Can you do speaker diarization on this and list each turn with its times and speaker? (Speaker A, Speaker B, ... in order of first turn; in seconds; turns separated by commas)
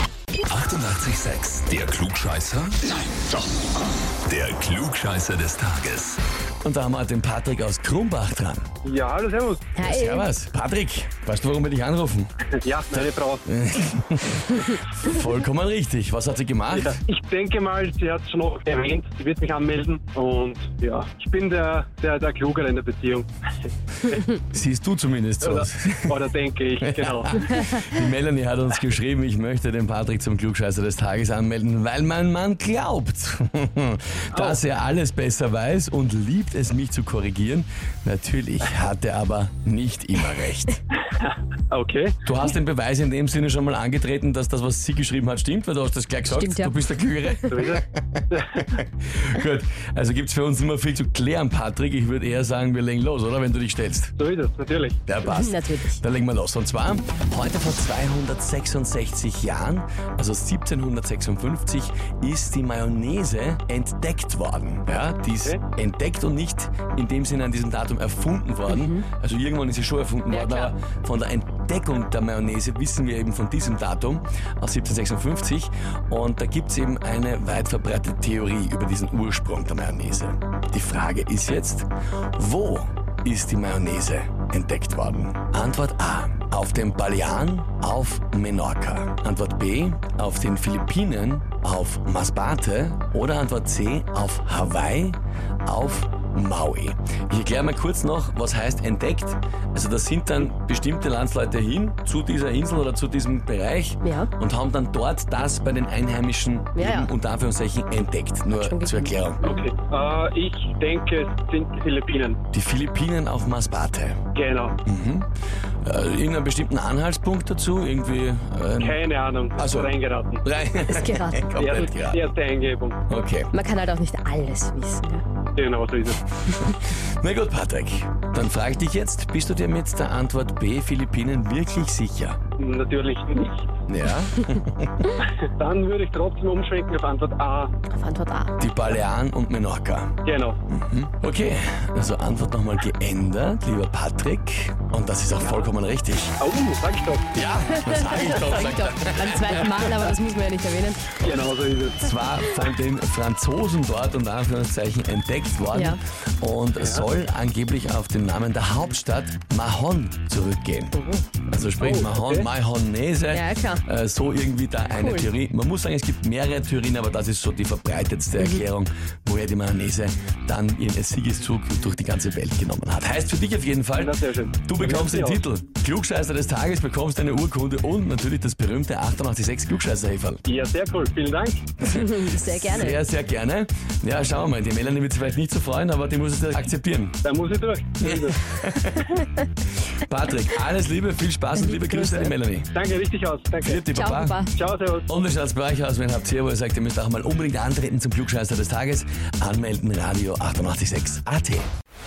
Speaker A: 0.5-3.4, Speaker A: 4.3-6.2, Speaker B: 6.6-8.7, Speaker C: 8.8-9.8, Speaker D: 9.8-10.3, Speaker B: 9.8-12.3, Speaker C: 12.6-13.4, Speaker B: 13.5-17.0, Speaker C: 16.7-23.3, Speaker B: 24.3-26.2, Speaker C: 25.4-27.6, Speaker B: 26.8-40.8, Speaker C: 34.3-34.6, Speaker C: 41.2-42.2, Speaker B: 42.2-54.1, Speaker D: 46.3-46.9, Speaker C: 47.5-48.6, Speaker C: 54.2-55.0, Speaker B: 55.1-109.4, Speaker D: 55.2-56.0, Speaker D: 68.7-69.0, Speaker D: 70.3-70.7, Speaker D: 104.0-104.3, Speaker D: 106.8-107.1, Speaker D: 108.6-109.2, Speaker C: 109.4-112.4, Speaker B: 112.5-114.2, Speaker C: 114.3-114.8, Speaker B: 114.9-115.3, Speaker B: 115.8-119.0, Speaker C: 118.8-120.5, Speaker B: 119.6-122.3, Speaker D: 120.9-121.9, Speaker C: 121.6-123.0, Speaker B: 123.1-123.5, Speaker D: 123.5-125.2, Speaker C: 125.6-126.2, Speaker B: 126.6-132.4, Speaker C: 132.6-133.8, Speaker B: 133.9-135.1, Speaker C: 135.2-137.7, Speaker D: 137.9-138.6, Speaker B: 138.6-140.2, Speaker C: 140.2-140.6, Speaker B: 140.7-146.4, Speaker C: 145.4-145.7, Speaker C: 146.4-147.4, Speaker B: 147.3-150.1, Speaker D: 147.8-151.1, Speaker C: 151.2-152.1, Speaker B: 152.0-180.4, Speaker D: 155.7-156.0, Speaker C: 156.8-157.1, Speaker D: 160.9-161.2, Speaker C: 161.8-162.5, Speaker D: 163.3-163.8, Speaker D: 164.9-165.3, Speaker D: 168.4-168.7, Speaker C: 173.9-175.4, Speaker C: 180.5-181.7, Speaker B: 181.8-187.2, Speaker D: 181.8-183.0, Speaker C: 187.2-188.4, Speaker B: 188.0-189.2, Speaker B: 189.9-192.7, Speaker D: 191.6-192.3, Speaker C: 192.7-193.8, Speaker B: 193.6-194.4, Speaker D: 193.9-194.5, Speaker C: 194.5-195.1, Speaker B: 195.1-201.7